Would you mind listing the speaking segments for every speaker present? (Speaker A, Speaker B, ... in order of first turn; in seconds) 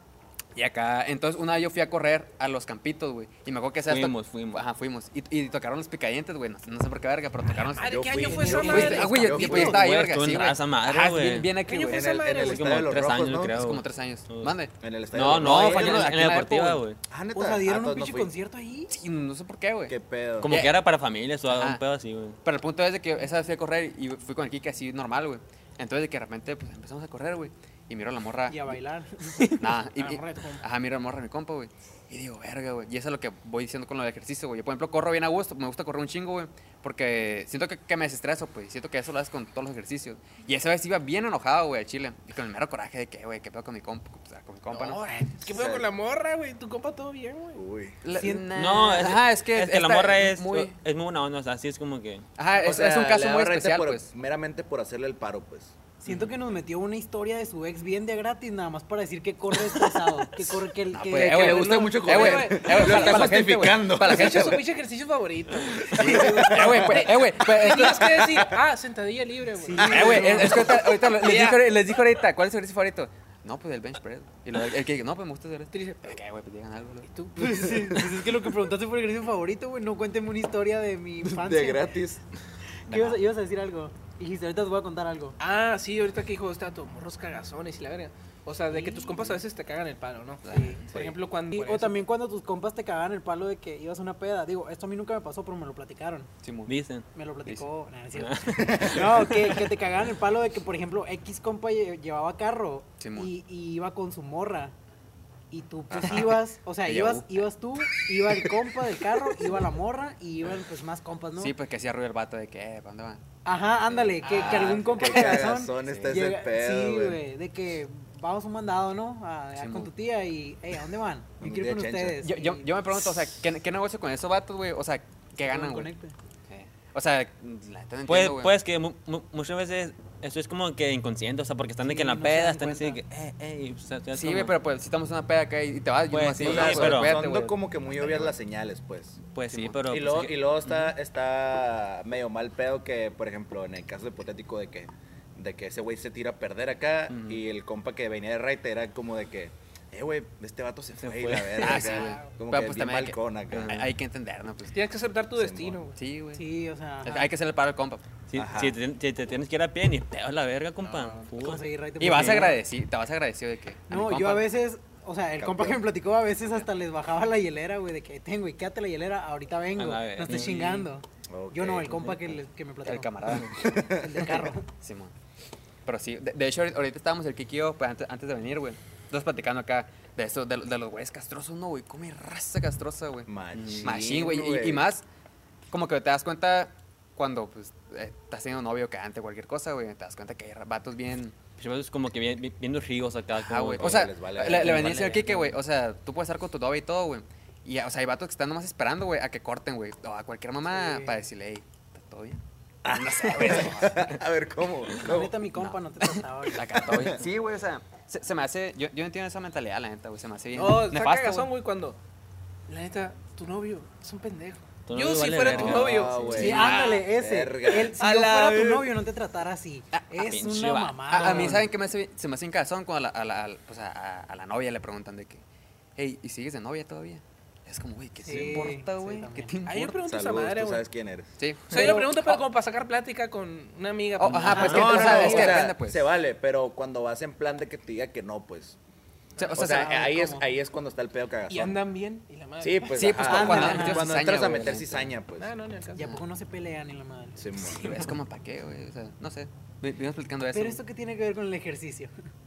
Speaker A: 0.6-12.2, 13.4-14.7, 15.3-16.8, 18.9-20.0, 20.5-20.8, 21.5-21.8, 22.4-28.8, 29.5-45.1, 48.0-50.7, 52.4-54.1, 60.9-64.6, 65.9-68.3, 69.8-77.1, 82.9-83.2, 90.5-90.8, 96.4-96.7, 103.0-103.3, 106.0-107.5, 111.4-113.2, 114.8-115.2, 115.8-116.3, 119.6-119.9, 122.2-125.9, 126.5-128.5, 134.1-137.6, 139.5-139.8, 151.6-154.8, 156.0-156.5, 157.0-158.1, 162.0-164.5, 170.3-170.6, 172.8-173.8, 174.8-175.1, 175.9-183.3, 183.8-185.0, 185.7-191.4, 193.3-204.2, 205.5-211.5, 216.3-217.0, 221.1-225.4, 226.0-230.0, 231.4-232.4, 234.2-236.1, 239.4-240.1, 242.9-245.1, 247.7-250.8
Speaker B: 3.9-4.7, 9.3-11.6, 12.4-14.6, 15.1-17.0, 20.4-22.4, 48.5-52.3, 96.7-97.1, 98.1-99.7, 128.1-134.5, 136.1-137.2, 139.3-140.9, 147.1-147.4, 151.0-151.8, 153.5-153.9, 158.3-162.5, 169.8-170.9, 173.3-173.6, 191.6-195.6, 214.9-216.8, 220.2-221.7
Speaker C: 7.7-9.4, 11.7-12.8, 30.0-30.6, 44.7-47.6, 62.0-63.3, 64.0-71.7, 75.7-76.2, 77.0-77.7, 85.4-92.0, 114.2-114.8, 151.8-152.3, 154.7-156.0, 160.8-161.3, 210.6-212.0, 212.7-216.7, 217.9-218.9, 229.7-230.9, 231.7-235.5, 241.5-243.8, 245.4-246.2
Speaker D: 7.8-9.8, 11.9-13.5, 14.8-16.3, 17.1-18.3, 19.9-20.6, 45.5-45.9, 47.5-48.0, 52.5-55.8, 61.0-64.6, 66.0-67.1, 68.2-68.5, 69.8-70.1, 77.7-78.2, 81.2-82.2, 98.6-99.0, 105.9-106.4, 114.3-117.2, 121.4-122.2, 136.4-139.2, 139.9-153.8, 155.3-155.8, 158.3-158.8, 165.4-165.9, 171.3-172.2, 173.5-174.4, 183.3-184.9, 193.8-195.1, 202.8-205.4, 215.5-218.0, 230.0-231.3, 234.6-238.8, 239.5-241.8, 242.6-245.5, 247.4-248.0
Speaker E: 8.2-9.3, 17.3-18.9, 28.5-29.6, 48.1-48.5, 56.0-62.1, 69.6-70.8, 77.4-81.9, 82.9-85.4, 88.7-89.4, 90.5-90.8, 91.5-96.3, 97.1-104.7, 105.5-111.5, 113.5-122.7, 125.5-126.2, 131.8-133.0, 156.3-157.3, 161.4-162.6, 163.9-173.3, 173.8-174.7, 200.7-201.2, 205.0-206.9, 216.3-221.7, 228.2-229.5, 231.8-232.1, 234.4-235.7, 239.6-240.5, 243.2-244.2, 245.9-247.5, 250.5-252.1